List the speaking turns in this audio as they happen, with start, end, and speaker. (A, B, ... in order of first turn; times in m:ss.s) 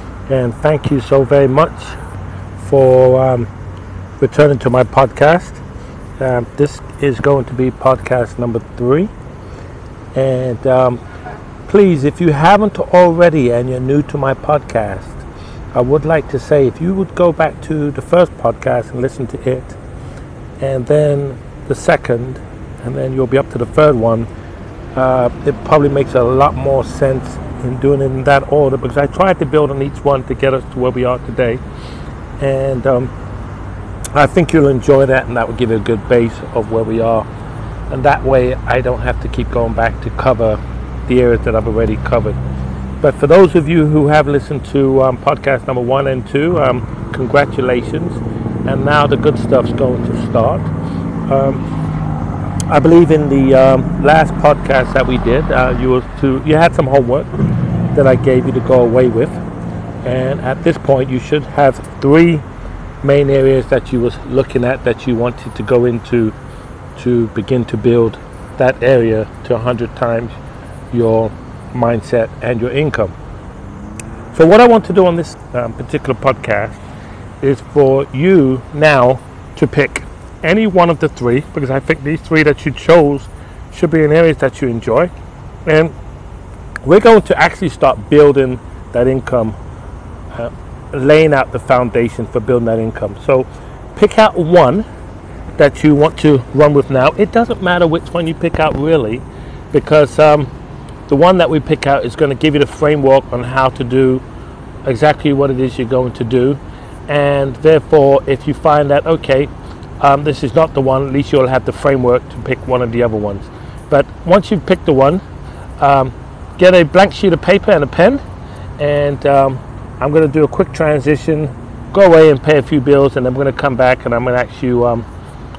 0:00.3-0:02.0 A
0:02.6-0:03.5 A
0:04.2-0:05.6 A
0:06.2-0:09.1 A
0:10.1-0:11.0 A
0:11.7-0:19.8 A
0:20.6-0:24.3 A
0:25.0-0:31.6 A
0:32.4-0:33.1 A
0:34.1-0:37.3 A
0:37.9-0:42.4 A
0:43.0-0:50.7 A
0:51.3-0:51.6 A
0:52.7-0:59.4 A
1:00.0-1:02.4 A
1:03.0-1:06.3 A
1:07.0-1:10.4 A
1:10.9-1:13.2 A
1:14.3-1:16.8 A
1:17.4-1:25.1 A
1:25.7-1:25.9 A
1:26.9-1:29.6 A
1:30.3-1:34.9 A
1:35.6-1:40.5 A
1:41.1-1:44.2 A
1:44.8-1:55.2 A
1:55.8-1:58.2 A
1:58.8-2:05.1 A